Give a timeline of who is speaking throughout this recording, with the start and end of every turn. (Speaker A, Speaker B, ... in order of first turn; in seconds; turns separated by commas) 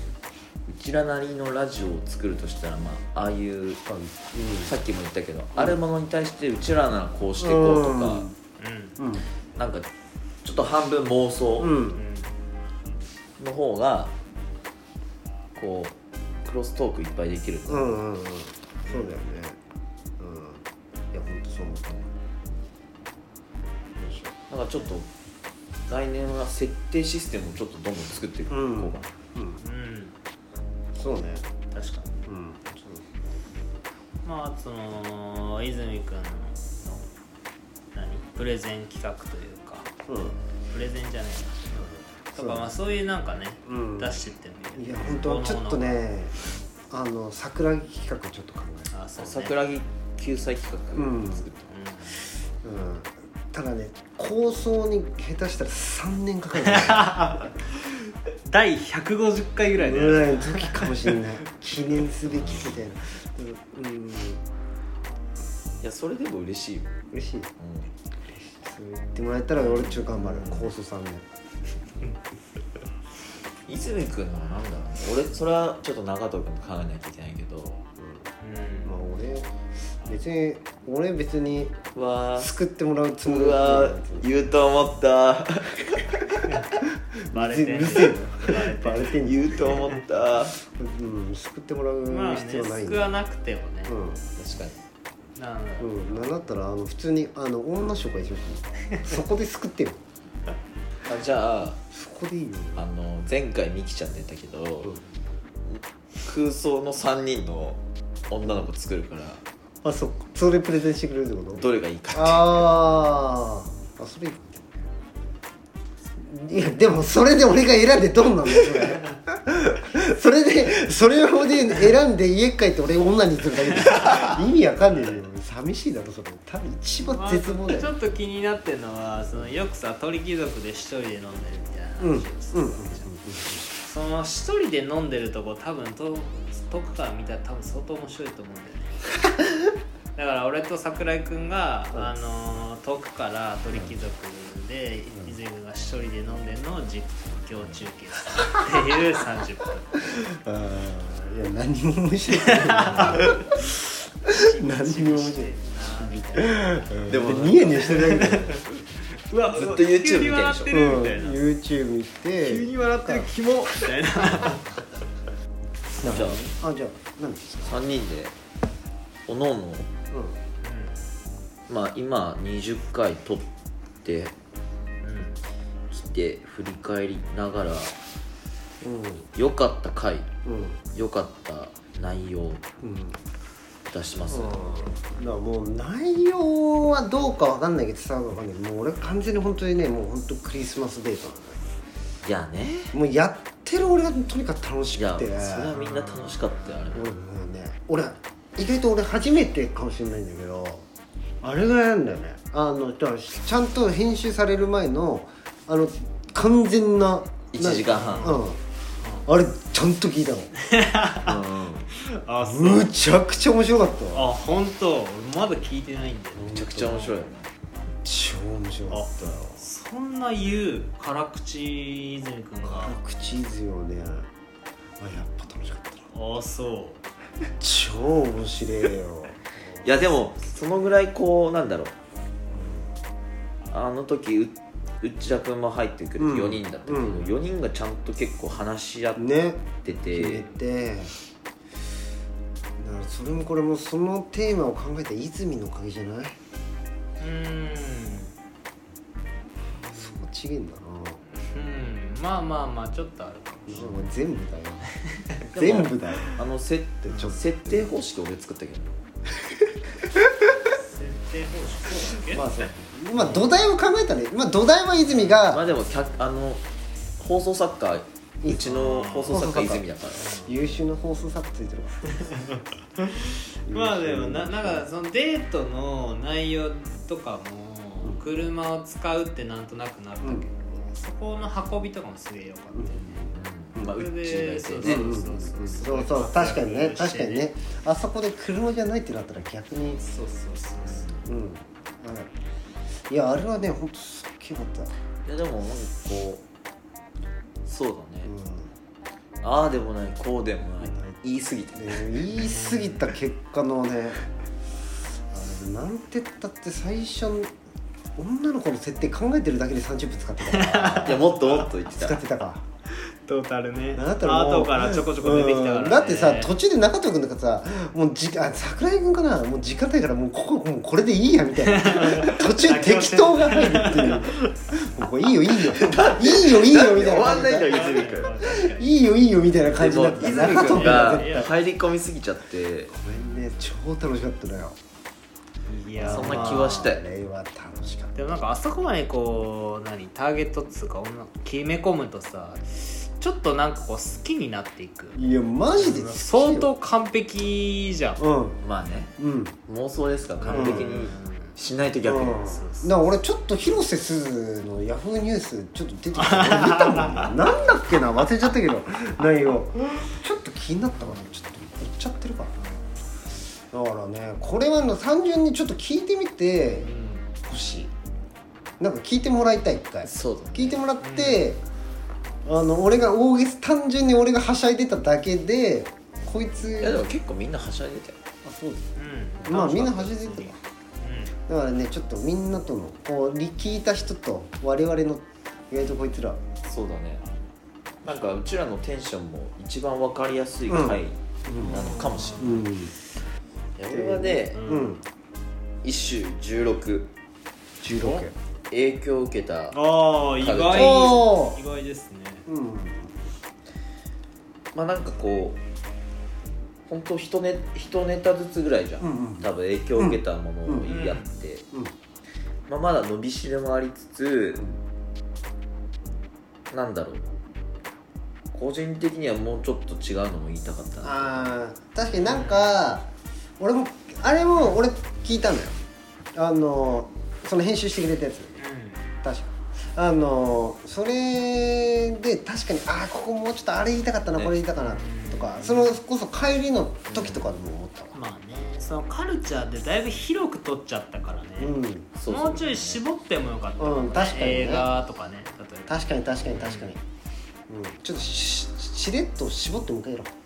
Speaker A: 0.7-3.8, Speaker B: 3.9-4.7, Speaker A: 4.5-8.3, Speaker B: 7.4-8.3, Speaker C: 8.6-9.0, Speaker B: 9.0-9.2, Speaker A: 9.6-9.9, Speaker A: 10.4-11.8, Speaker B: 11.6-12.0, Speaker C: 11.9-12.3, Speaker A: 13.4-14.2, Speaker A: 15.6-18.0, Speaker B: 17.7-19.6, Speaker C: 18.9-19.1, Speaker B: 20.2-22.0, Speaker B: 24.0-24.4, Speaker A: 24.5-25.1, Speaker A: 25.9-29.1, Speaker B: 28.5-29.6, Speaker C: 29.6-30.1, Speaker B: 30.9-31.5, Speaker C: 31.7-32.2, Speaker B: 32.3-33.0, Speaker C: 34.2-37.1, Speaker C: 37.9-39.9, Speaker B: 40.1-40.4, Speaker C: 40.7-41.6, Speaker B: 41.7-42.7, Speaker C: 42.3-46.0, Speaker B: 43.6-44.2, Speaker B: 44.8-46.4, Speaker B: 46.9-48.9, Speaker C: 48.9-49.6, Speaker A: 49.2-51.7, Speaker B: 50.9-51.5, Speaker C: 51.7-52.2, Speaker B: 52.6-57.3, Speaker C: 56.6-61.1, Speaker B: 59.8-64.4, Speaker A: 62.3-62.9, Speaker A: 65.8-66.9, Speaker B: 67.1-67.5, Speaker A: 67.6-67.9, Speaker B: 68.3-71.3, Speaker C: 69.6-70.5, Speaker A: 73.7-77.8, Speaker B: 78.0-78.3, Speaker C: 78.4-78.9, Speaker B: 78.8-79.5, Speaker B: 80.0-81.9, Speaker A: 82.0-82.5, Speaker B: 82.4-84.3, Speaker A: 83.2-86.5, Speaker C: 87.3-89.1, Speaker B: 87.3-90.0, Speaker A: 89.2-90.5, Speaker B: 90.6-93.1, Speaker C: 92.1-94.8, Speaker B: 93.9-94.2, Speaker C: 95.4-96.3, Speaker B: 95.8-100.0, Speaker A: 101.0-101.8, Speaker B: 101.9-102.9, Speaker A: 102.8-105.0, Speaker A: 105.7-109.4, Speaker B: 109.8-114.9, Speaker A: 111.5-112.9, Speaker B: 116.2-127.9, Speaker C: 123.9-124.4, Speaker C: 124.9-125.2, Speaker C: 127.0-133.1, Speaker B: 132.0-133.7, Speaker C: 133.7-139.0, Speaker C: 140.2-150.0, Speaker B: 150.1-158.6, Speaker C: 152.4-153.5, Speaker C: 154.3-158.7, Speaker A: 157.1-158.1, Speaker C: 159.3-161.4, Speaker A: 159.5-160.8, Speaker B: 160.7-163.3, Speaker C: 162.4-164.8, Speaker B: 166.0-167.8, Speaker A: 166.1-166.4, Speaker A: 167.7-168.3, Speaker A: 169.3-169.9, Speaker B: 170.1-170.4, Speaker C: 170.6-171.0, Speaker A: 171.7-173.5, Speaker A: 174.0-174.3, Speaker C: 175.0-175.4, Speaker A: 175.9-177.9, Speaker B: 178.8-179.3, Speaker A: 179.4-180.3, Speaker B: 180.4-180.8, Speaker A: 180.9-182.7, Speaker B: 182.8-183.2, Speaker A: 183.9-184.6, Speaker B: 184.2-191.7, Speaker A: 192.2-192.9, Speaker B: 192.9-195.8, Speaker A: 194.9-197.1, Speaker C: 195.7-196.8, Speaker B: 196.9-200.8, Speaker B: 201.4-208.6, Speaker A: 207.5-208.4, Speaker C: 207.9-208.4, Speaker C: 209.0-209.3, Speaker B: 209.3-210.5, Speaker C: 210.6-211.4, Speaker A: 211.2-211.9, Speaker C: 211.9-212.9, Speaker B: 212.4-214.3, Speaker C: 214.1-217.2, Speaker B: 216.3-217.0, Speaker A: 216.6-217.5, Speaker B: 218.0-219.6, Speaker C: 218.9-223.0, Speaker B: 222.6-224.3, Speaker B: 225.0-226.1, Speaker C: 226.1-227.0, Speaker B: 227.6-229.4, Speaker A: 229.8-231.9, Speaker B: 232.5-232.9, Speaker A: 233.7-239.3, Speaker B: 236.2-237.3, Speaker B: 239.2-241.1, Speaker A: 239.8-240.5, Speaker B: 242.8-246.4, Speaker C: 247.2-248.3, Speaker C: 249.8-250.2, Speaker B: 249.9-251.2, Speaker C: 251.3-254.0, Speaker B: 253.7-254.9, Speaker C: 255.1-255.4, Speaker B: 255.5-256.3, Speaker A: 255.5-258.9, Speaker B: 257.1-257.8, Speaker C: 260.6-262.5, Speaker B: 262.3-265.6, Speaker C: 265.1-265.5, Speaker A: 265.5-266.6, Speaker A: 267.2-270.3, Speaker B: 268.4-268.7, Speaker C: 268.6-269.4, Speaker B: 269.3-269.9, Speaker C: 270.2-270.5, Speaker B: 270.4-272.4, Speaker C: 272.1-287.5, Speaker B: 273.7-274.9, Speaker B: 280.2-280.5, Speaker B: 282.8-283.0, Speaker A: 283.2-285.1, Speaker B: 284.8-290.0, Speaker C: 290.0-291.2, Speaker B: 291.2-292.3, Speaker B: 293.1-294.9, Speaker A: 295.2-296.4, Speaker A: 297.6-298.3, Speaker B: 298.2-298.7, Speaker A: 299.4-302.1, Speaker B: 300.8-301.1, Speaker B: 301.8-304.2, Speaker C: 302.3-303.0, Speaker B: 305.3-307.5, Speaker B: 308.2-311.3, Speaker C: 310.4-311.7, Speaker A: 311.0-312.2, Speaker B: 311.9-312.6, Speaker C: 312.9-316.5, Speaker B: 313.9-331.5, Speaker C: 321.6-324.9, Speaker A: 325.7-328.4, Speaker C: 327.7-328.9, Speaker A: 329.7-332.9, Speaker C: 330.5-331.5, Speaker B: 332.9-334.8, Speaker C: 335.7-336.9, Speaker B: 336.0-338.3, Speaker A: 336.0-337.0, Speaker C: 338.1-345.2, Speaker B: 345.1-346.7, Speaker C: 345.7-348.2, Speaker B: 348.2-348.6, Speaker A: 348.6-349.1, Speaker B: 349.2-349.6, Speaker A: 349.7-352.5, Speaker C: 350.4-351.6, Speaker B: 350.5-351.1, Speaker B: 352.0-362.6, Speaker C: 352.4-353.0, Speaker C: 356.1-357.3, Speaker C: 361.0-361.4, Speaker C: 362.6-363.0, Speaker B: 363.7-366.9, Speaker C: 366.8-367.3, Speaker B: 367.4-367.9, Speaker B: 368.8-371.6, Speaker A: 370.1-370.8, Speaker C: 371.0-371.5, Speaker B: 372.4-377.1, Speaker A: 376.8-378.2, Speaker B: 378.4-380.6, Speaker C: 379.0-381.4, Speaker B: 381.5-386.4, Speaker A: 386.7-387.2, Speaker A: 388.0-392.7, Speaker B: 390.7-391.8, Speaker C: 391.6-392.6, Speaker B: 392.4-392.9, Speaker A: 393.8-394.7, Speaker B: 393.9-395.0, Speaker C: 394.5-394.9, Speaker A: 395.8-397.1, Speaker B: 397.8-398.3, Speaker C: 398.0-398.3, Speaker A: 398.7-399.8, Speaker C: 399.7-402.5, Speaker A: 400.4-401.3, Speaker B: 400.7-401.6, Speaker B: 402.5-403.2, Speaker A: 404.8-405.6, Speaker A: 406.9-411.7, Speaker B: 409.0-410.9, Speaker C: 410.9-411.3, Speaker A: 412.7-414.7, Speaker A: 416.7-417.3, Speaker A: 418.5-421.5, Speaker B: 421.0-423.1, Speaker C: 422.2-422.9, Speaker B: 423.6-425.8, Speaker B: 426.4-428.6, Speaker C: 428.6-429.0, Speaker B: 429.2-438.1, Speaker C: 434.8-436.0, Speaker A: 437.1-437.5, Speaker C: 438.1-446.9, Speaker B: 441.6-442.1, Speaker A: 442.2-443.0, Speaker B: 443.8-444.9, Speaker B: 445.9-447.0, Speaker B: 447.7-450.3